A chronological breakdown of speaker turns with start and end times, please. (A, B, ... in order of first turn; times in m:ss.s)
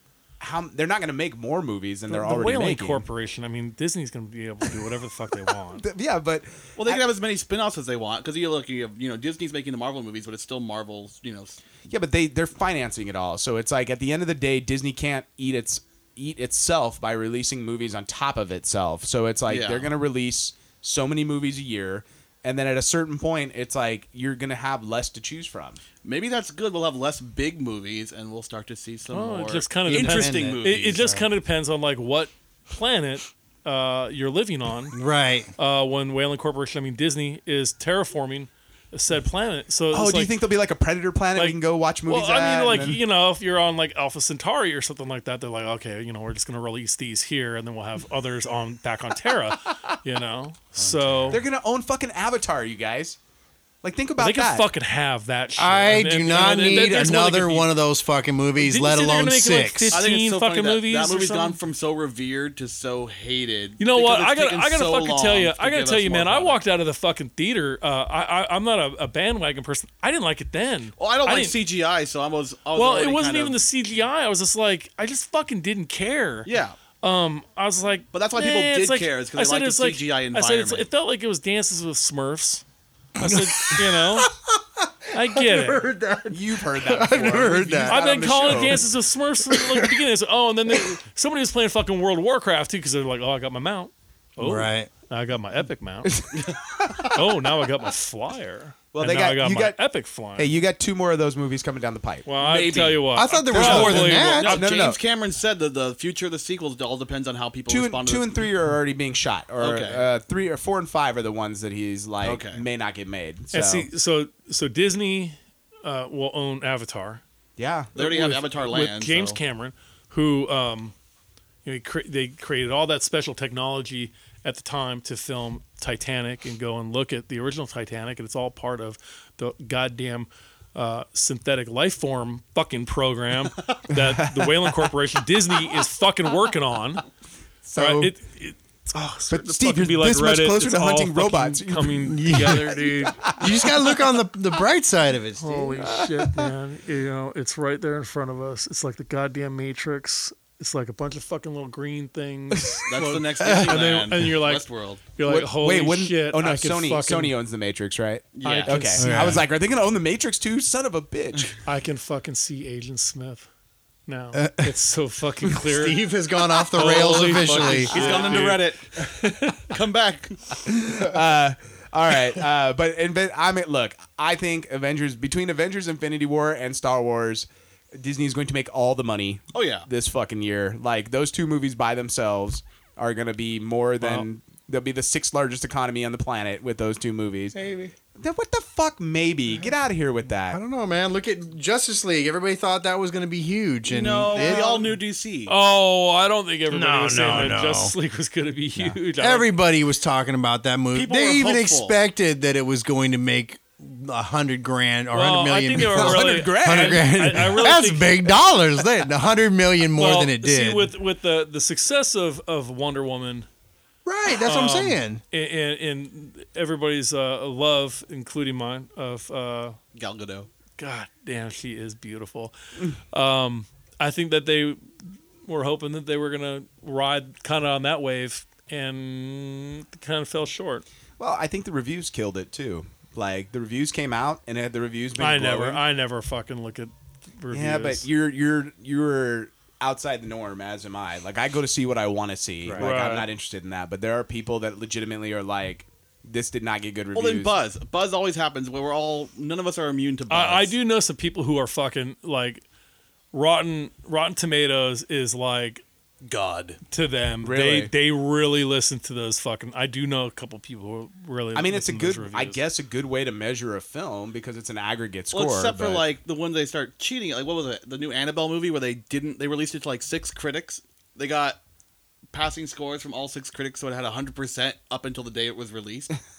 0:00.4-0:03.0 A
0:02.1-0:05.8 B
0:05.7-0:07.0 A
0:06.8-0:11.6 C
0:11.9-0:25.8 A
0:19.5-0:19.9 C
0:26.0-0:31.2 C
0:29.1-0:35.0 B
0:29.9-0:31.3 D
0:34.9-0:35.5 D
0:35.6-0:40.4 B
0:39.9-0:43.0 A
0:41.4-0:51.4 B
0:50.8-0:51.4 D
0:51.3-0:53.2 A
0:53.8-0:54.7 A
0:54.2-0:57.7 B
0:55.6-1:00.0 D
0:58.6-1:01.6 B
0:59.9-1:06.6 C
1:03.8-1:11.6 B
1:11.0-1:13.6 C
1:12.7-1:16.5 B
1:16.5-1:16.8 C
1:17.0-1:22.6 B
1:18.1-1:20.9 C
1:23.2-1:24.3 B
1:23.2-1:28.8 D
1:25.1-1:25.8 B
1:26.3-1:28.9 A
1:27.9-1:36.2 B
1:29.5-1:30.0 D
1:34.4-1:34.9 D
1:36.1-1:37.2 A
1:37.0-1:40.5 B
1:38.9-1:39.8 A
1:40.4-1:42.3 A
1:42.3-1:44.8 B
1:42.4-1:43.0 C
1:43.2-1:44.6 D
1:43.5-1:45.0 A
1:43.6-1:48.5 C
1:47.7-1:53.9 A
1:49.6-1:50.1 C
1:52.2-1:52.6 C
1:53.5-1:57.2 B
1:57.6-1:57.9 A
1:58.0-1:59.4 C
1:58.0-2:00.9 B
2:01.6-2:17.0 B
2:13.9-2:14.9 A
2:17.6-2:18.2 A
2:17.8-2:23.3 B
2:19.3-2:22.6 A
2:22.0-2:26.0 D
2:23.3-2:23.9 A
2:25.4-2:37.4 B
2:26.0-2:26.5 A
2:32.9-2:35.1 C
2:33.4-2:33.8 D
2:35.2-2:41.6 A
2:38.4-2:39.0 C
2:38.4-2:39.4 B
2:39.0-2:39.5 D
2:41.6-2:43.5 B
2:44.1-2:46.0 B
2:44.3-2:44.7 D
2:45.5-2:48.2 D
2:46.7-2:49.6 B
2:47.2-2:49.1 C
2:49.7-2:50.4 C
2:50.7-3:07.6 A
2:59.5-2:59.9 C
3:07.5-3:08.0 D
3:08.2-3:10.6 A
3:10.5-3:14.8 D
3:13.9-3:15.5 C
3:15.5-3:19.5 B
3:16.7-3:18.0 D
3:18.8-3:30.9 D
3:20.9-3:22.0 C
3:25.1-3:28.4 B
3:25.9-3:27.4 A
3:30.0-3:33.5 B
3:34.1-3:35.2 D
3:34.4-3:39.8 B
3:40.0-3:40.5 C
3:40.8-3:42.5 B
3:43.1-3:44.8 B
3:45.4-3:50.8 B
3:51.2-3:55.8 A
3:55.2-3:58.1 B
3:57.5-4:07.6 A
4:02.8-4:03.3 B
4:07.1-4:10.8 C
4:10.3-4:12.6 B
4:13.3-4:15.8 B
4:16.2-4:16.8 C
4:16.9-4:22.6 B
4:17.4-4:17.9 A
4:21.6-4:26.0 A
4:25.3-4:31.6 C
4:32.3-4:36.1 C